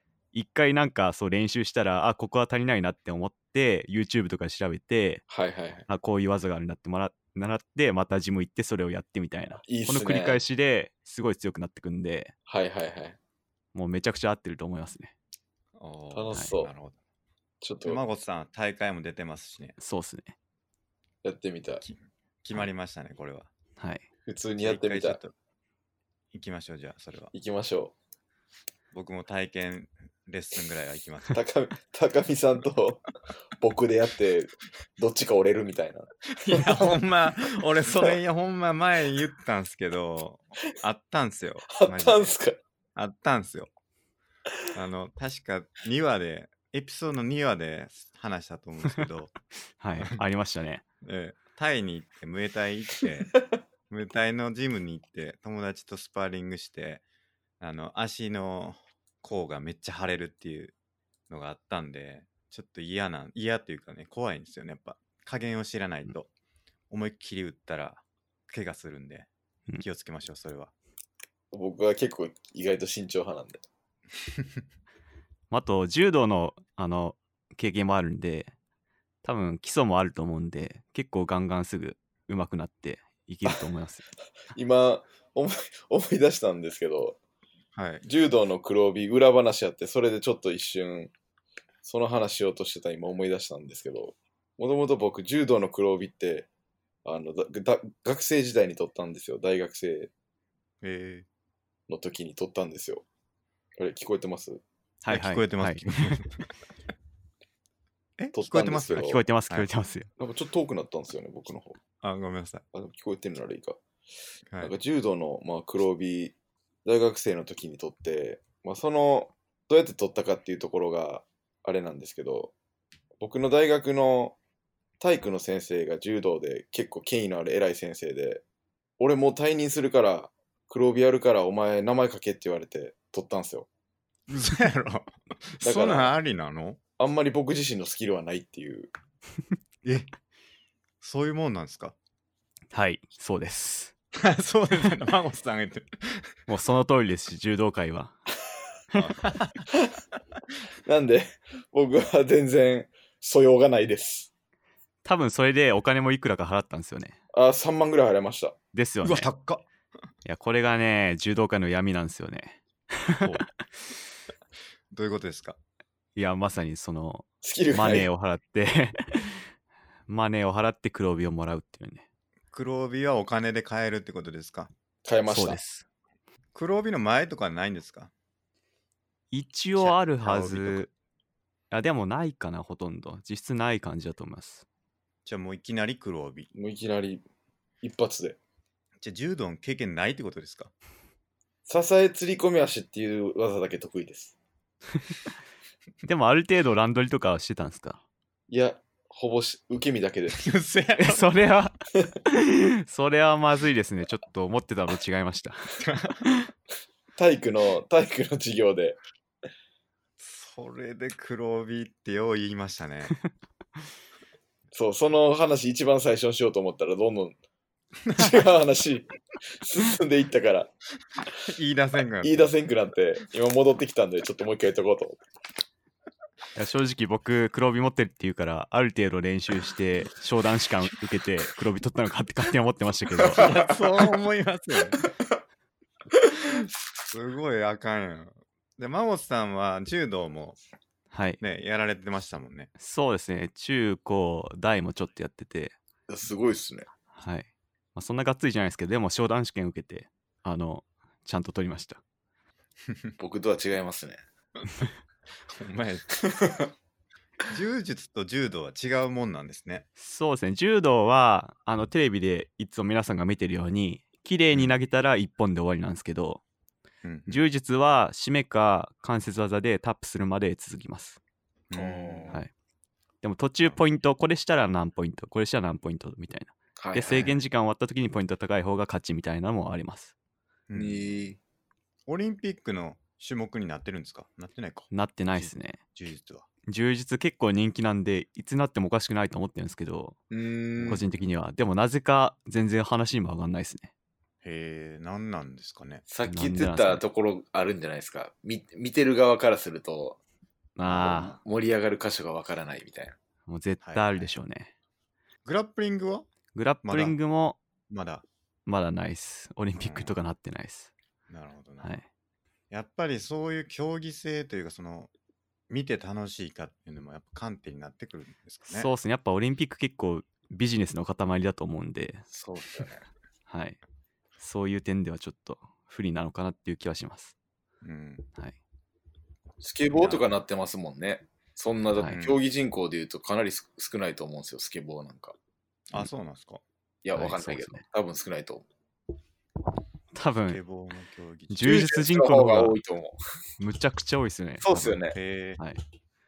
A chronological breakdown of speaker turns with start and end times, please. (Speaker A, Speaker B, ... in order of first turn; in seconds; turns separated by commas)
Speaker A: 0.3-5.2, Speaker B: 5.3-5.8, Speaker A: 5.9-12.3, Speaker B: 9.6-10.4, Speaker B: 12.5-13.2, Speaker A: 13.7-15.1, Speaker C: 15.8-16.9, Speaker B: 16.1-16.7, Speaker B: 17.6-18.0, Speaker C: 17.8-19.7, Speaker A: 19.8-20.4, Speaker B: 21.2-21.8, Speaker C: 21.8-23.5, Speaker A: 23.8-24.0, Speaker B: 24.2-25.2, Speaker C: 24.6-25.3, Speaker C: 26.3-27.3, Speaker B: 27.3-27.9, Speaker C: 28.9-31.4, Speaker B: 31.3-33.0, Speaker B: 33.6-36.9, Speaker C: 36.3-42.3, Speaker B: 41.7-42.6, Speaker C: 42.9-43.7, Speaker C: 44.7-49.3, Speaker A: 49.8-50.8, Speaker C: 51.0-53.3, Speaker C: 53.9-57.0, Speaker C: 57.6-60.7, Speaker C: 61.3-66.3, Speaker C: 66.9-70.7, Speaker B: 71.5-73.6, Speaker A: 75.5-78.5, Speaker A: 79.2-84.0, Speaker B: 84.5-87.2, Speaker C: 87.7-88.0, Speaker B: 88.0-91.1, Speaker B: 91.8-96.5, Speaker B: 97.0-100.1, Speaker C: 100.8-101.2, Speaker B: 101.9-103.0, Speaker B: 103.8-104.6, Speaker A: 105.0-106.2, Speaker C: 105.1-106.3, Speaker C: 108.2-109.7, Speaker B: 108.3-109.2, Speaker A: 108.9-110.1, Speaker B: 110.2-111.8, Speaker C: 112.0-112.6, Speaker B: 112.7-113.8, Speaker B: 114.6-122.5, Speaker B: 123.2-124.3, Speaker B: 125.0-128.4, Speaker B: 129.0-133.7, Speaker C: 134.3-136.8, Speaker B: 135.6-136.2, Speaker B: 137.0-138.9, Speaker C: 139.8-140.1, Speaker C: 141.0-141.9, Speaker A: 142.7-143.9, Speaker C: 144.2-146.3, Speaker A: 146.5-148.2, Speaker C: 148.9-149.6, Speaker B: 149.7-150.0, Speaker B: 150.8-154.3, Speaker A: 155.0-157.2, Speaker B: 157.3-158.6, Speaker A: 158.7-159.3, Speaker C: 159.0-159.6, Speaker A: 160.2-163.4, Speaker C: 163.1-163.5, Speaker C: 164.9-165.6, Speaker A: 166.2-169.5, Speaker B: 167.4-168.1, Speaker A: 170.1-172.0, Speaker C: 172.5-174.7, Speaker B: 175.0-175.6, Speaker A: 175.3-175.8, Speaker C: 176.5-178.1, Speaker A: 179.3-180.9, Speaker C: 179.8-180.8, Speaker A: 181.7-184.6, Speaker C: 185.2-186.5, Speaker B: 186.5-187.2, Speaker B: 187.8-188.4, Speaker C: 189.0-190.7, Speaker B: 191.7-194.3, Speaker A: 196.0-198.0, Speaker B: 198.5-200.4, Speaker C: 200.3-201.2, Speaker A: 201.0-201.7, Speaker A: 202.2-206.5, Speaker C: 205.8-206.2, Speaker B: 207.2-209.0, Speaker C: 210.2-213.1, Speaker B: 214.7-217.3, Speaker C: 218.1-218.3, Speaker B: 218.2-220.7, Speaker C: 221.5-222.5, Speaker B: 222.2-225.2, Speaker A: 226.6-233.4, Speaker B: 233.2-233.8, Speaker C: 233.3-235.0, Speaker C: 236.5-240.6, Speaker A: 241.1-241.4, Speaker C: 241.4-242.7, Speaker A: 242.8-245.8, Speaker B: 246.1-246.9, Speaker A: 247.1-252.0, Speaker B: 253.2-254.2, Speaker C: 255.5-256.1, Speaker B: 256.2-256.7, Speaker C: 257.5-259.9, Speaker A: 260.0-266.4, Speaker C: 267.0-267.4, Speaker A: 267.3-271.2, Speaker C: 271.7-272.4, Speaker B: 271.7-272.4, Speaker A: 273.2-280.1, Speaker B: 276.8-277.4, Speaker C: 280.7-281.2, Speaker B: 280.8-281.4, Speaker C: 282.1-286.4, Speaker A: 284.9-285.8, Speaker A: 286.7-290.2, Speaker B: 290.3-291.0, Speaker C: 290.8-291.0, Speaker A: 290.9-293.9, Speaker C: 294.4-296.0, Speaker B: 296.1-300.2, Speaker A: 296.2-297.0, Speaker A: 300.8-301.4, Speaker C: 300.9-301.2, Speaker B: 300.9-303.2, Speaker A: 303.5-304.7, Speaker C: 303.8-304.3, Speaker C: 305.4-306.3, Speaker A: 306.5-307.6, Speaker C: 306.8-307.1, Speaker C: 307.9-308.2, Speaker A: 308.6-310.9, Speaker C: 309.8-310.1, Speaker C: 311.3-312.0, Speaker C: 312.7-315.1, Speaker C: 315.7-318.9, Speaker A: 318.7-322.3, Speaker B: 322.3-323.1, Speaker A: 323.5-323.8, Speaker A: 324.4-327.3, Speaker C: 327.8-328.2, Speaker B: 329.6-335.4, Speaker C: 329.9-330.2, Speaker C: 332.1-332.4, Speaker C: 335.9-336.6, Speaker B: 337.0-338.7, Speaker A: 337.1-337.8, Speaker A: 340.1-340.6, Speaker C: 340.5-341.8, Speaker A: 341.5-342.8, Speaker B: 341.6-343.2, Speaker A: 343.6-345.0, Speaker B: 344.6-345.1, Speaker C: 345.1-345.6